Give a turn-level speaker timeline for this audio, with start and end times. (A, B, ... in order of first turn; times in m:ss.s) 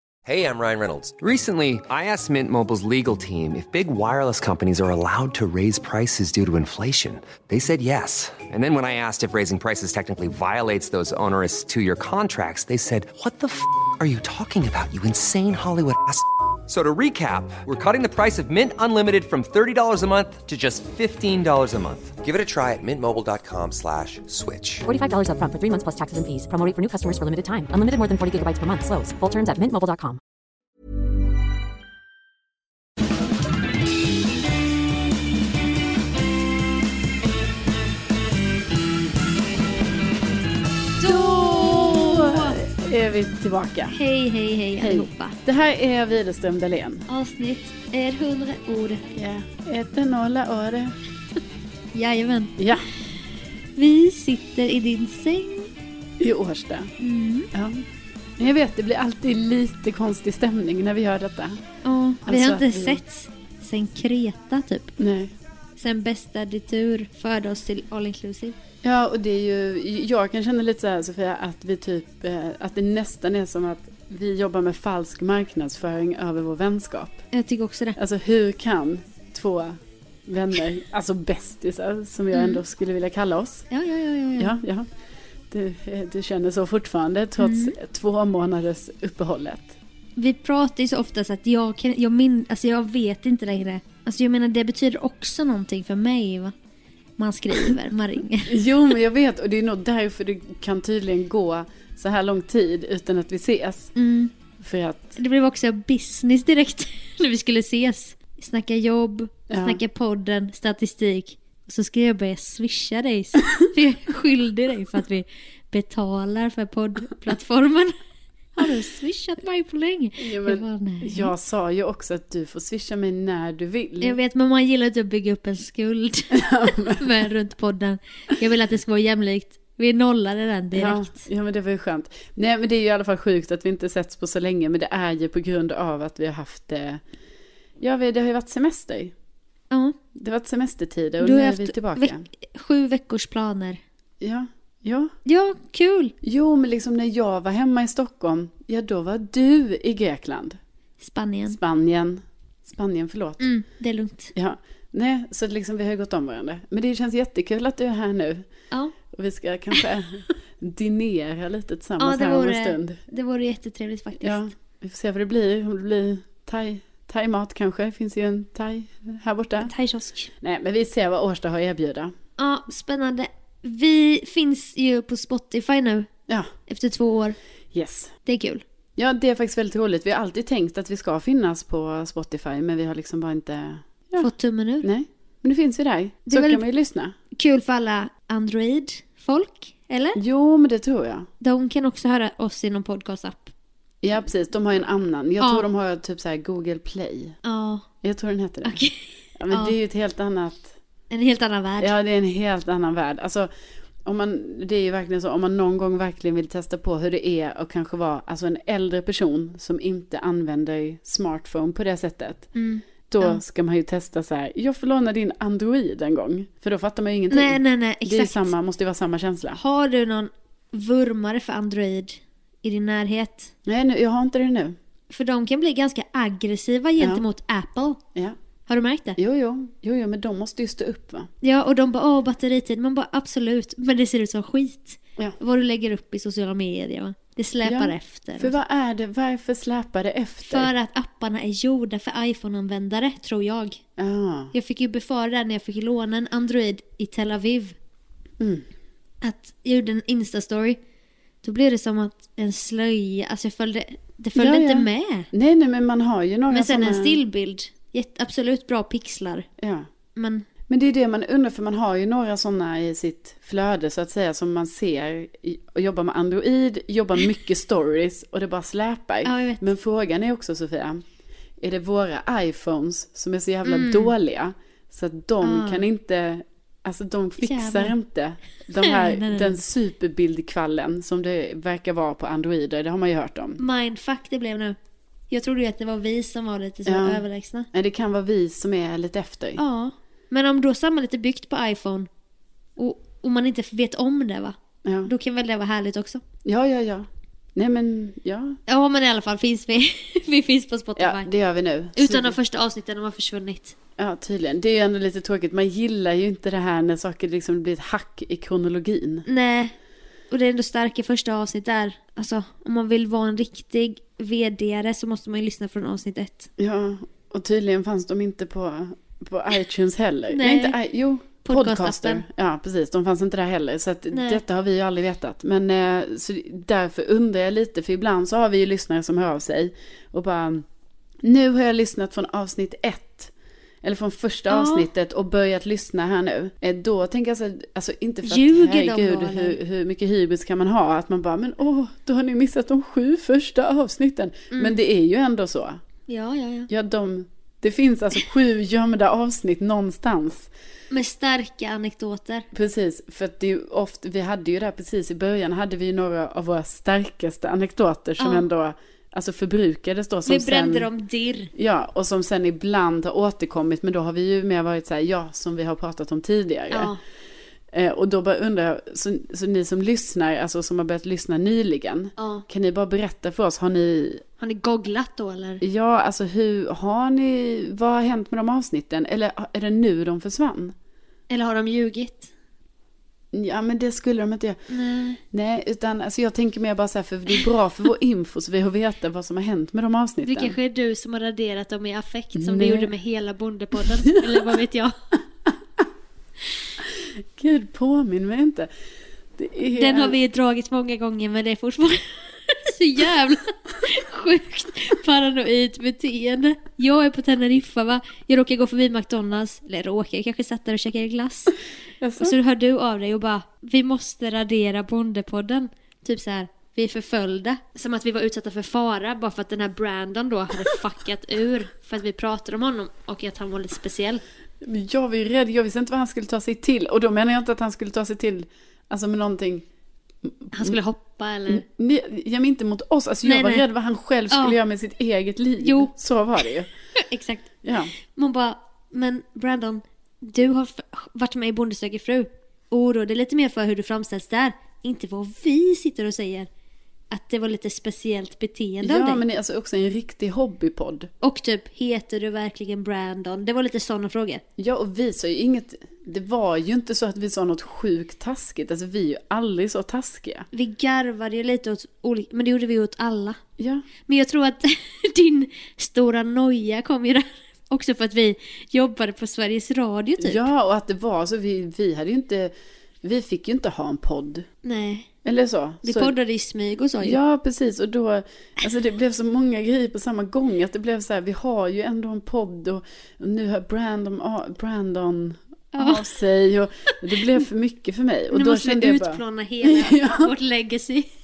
0:00.2-0:24.8 A
0:24.8-0:30.2 B
0:41.0-0:42.6 C
0:41.0-0:44.0 D
0:43.9-0:45.4 C
0:44.8-0:47.0 D
0:47.1-0:49.1 C
0:49.1-0:50.9 D
0:51.9-0:52.8 C
0:52.6-0:52.9 D
0:53.8-0:55.7 C
0:56.2-0:56.9 D
0:57.0-0:57.5 C
0:57.5-0:57.8 D
0:58.4-1:01.6 D
1:01.8-1:04.9 C
1:02.2-1:03.0 D
1:05.0-1:05.3 D
1:05.8-1:08.6 C
1:08.8-1:17.2 D
1:17.3-1:18.0 C
1:18.0-1:23.7 D
1:22.3-1:22.6 C
1:23.7-1:24.6 C
1:24.4-1:24.9 D
1:25.5-1:29.7 D
1:27.4-1:27.7 C
1:30.2-1:36.5 C
1:37.2-1:38.6 C
1:38.5-1:43.9 D
1:43.9-1:44.3 C
1:44.6-1:45.2 D
1:45.2-1:57.9 C
1:49.5-1:49.8 D
1:58.5-2:01.3 C
2:00.2-2:04.2 D
2:04.0-2:11.2 C
2:06.3-2:07.0 D
2:10.7-2:17.0 D
2:17.8-2:19.1 D
2:19.7-2:20.0 C
2:20.1-2:22.3 D
2:21.2-2:23.8 C
2:24.2-2:25.1 D
2:25.2-2:26.1 C
2:26.2-2:30.6 D
2:31.0-2:31.6 C
2:31.5-2:33.4 D
2:33.4-2:34.3 C
2:34.3-2:38.5 D
2:39.1-2:43.0 D
2:42.0-2:44.4 C
2:44.2-2:49.7 D
2:49.6-2:50.3 C
2:50.4-2:52.1 D
2:52.4-2:56.1 C
2:56.7-2:57.4 C
2:57.7-2:58.1 D
2:58.2-2:58.6 C
2:59.0-3:04.3 D
3:04.2-3:04.9 C
3:04.8-3:07.1 D
3:06.3-3:06.6 C
3:07.3-3:10.2 C
3:10.2-3:11.3 D
3:11.4-3:13.5 C
3:14.0-3:17.4 D
3:15.4-3:15.7 C
3:17.4-3:17.8 C
3:18.0-3:18.8 D
3:18.6-3:19.8 C
3:19.4-3:20.7 D
3:21.1-3:21.9 C
3:21.8-3:23.5 D
3:24.0-3:32.5 D
3:32.5-3:33.4 C
3:33.1-3:39.6 D
3:37.3-3:38.5 C
3:39.5-3:43.5 C
3:43.6-3:44.8 D
3:45.1-3:48.0 C
3:47.0-3:47.2 D
3:48.7-3:49.2 C
3:49.2-3:51.3 D
3:51.4-3:58.6 C
3:57.6-4:00.7 D
4:00.5-4:03.8 C
4:04.0-4:04.5 D
4:04.5-4:07.7 C
4:08.4-4:08.6 D
4:09.2-4:10.8 C
4:11.4-4:15.3 C
4:14.3-4:17.2 D
4:16.5-4:19.5 C
4:19.6-4:19.9 D
4:20.2-4:20.4 C
4:20.7-4:31.0 D
4:29.2-4:29.7 C
4:31.6-4:43.6 D
4:33.6-4:34.1 C
4:35.4-4:35.9 C
4:37.4-4:37.9 C
4:38.8-4:39.6 C
4:43.6-4:44.8 C
4:45.3-4:47.7 C
4:46.8-4:49.6 D
4:49.6-4:52.1 C
4:52.8-4:56.2 C
4:54.8-4:55.1 D
4:56.4-4:58.6 D
4:58.7-5:01.3 C
5:01.0-5:02.4 D
5:01.9-5:03.7 C
5:04.0-5:09.2 D
5:09.2-5:09.7 C
5:10.3-5:16.5 C
5:16.6-5:30.6 D
5:20.3-5:20.8 C
5:21.4-5:22.2 C
5:24.1-5:24.4 C
5:31.2-5:33.3 D
5:33.8-5:45.8 D
5:34.5-5:34.9 C
5:38.2-5:39.6 C
5:44.5-5:44.8 C
5:46.1-5:46.7 C
5:46.7-5:50.5 D
5:50.9-5:52.5 C
5:52.5-6:00.9 D
5:58.2-5:58.4 C
6:00.2-6:01.5 C
6:01.5-6:06.9 D
6:06.7-6:07.0 C
6:07.7-6:14.2 D
6:12.2-6:12.4 C
6:14.4-6:15.6 C
6:15.6-6:20.7 D
6:21.3-6:22.3 C
6:23.3-6:24.6 D
6:24.7-6:25.2 C
6:25.3-6:30.6 D
6:30.2-6:34.9 C
6:32.3-6:32.9 D
6:34.0-6:34.4 D
6:37.4-6:38.7 D
6:39.4-6:40.2 D
6:39.7-6:51.6 C
6:52.0-6:52.4 D
6:52.2-7:04.2 C
7:04.6-7:09.6 D
7:10.2-7:10.8 D
7:10.5-7:11.6 C
7:11.5-7:16.7 D
7:13.2-7:13.6 C
7:14.3-7:14.6 C
7:15.6-7:15.9 C
7:16.9-7:26.5 C
7:17.6-7:17.9 D
7:27.1-7:29.2 C
7:28.8-7:31.1 D
7:31.2-7:34.4 C
7:34.6-7:40.5 D
7:40.5-7:43.4 C
7:43.6-7:43.9 D
7:44.1-7:50.4 C
7:50.2-7:54.4 D
7:54.6-7:55.1 C
7:55.2-7:56.2 D
7:55.8-7:57.2 C
7:57.0-8:10.3 D
8:05.7-8:06.1 C
8:08.3-8:11.1 C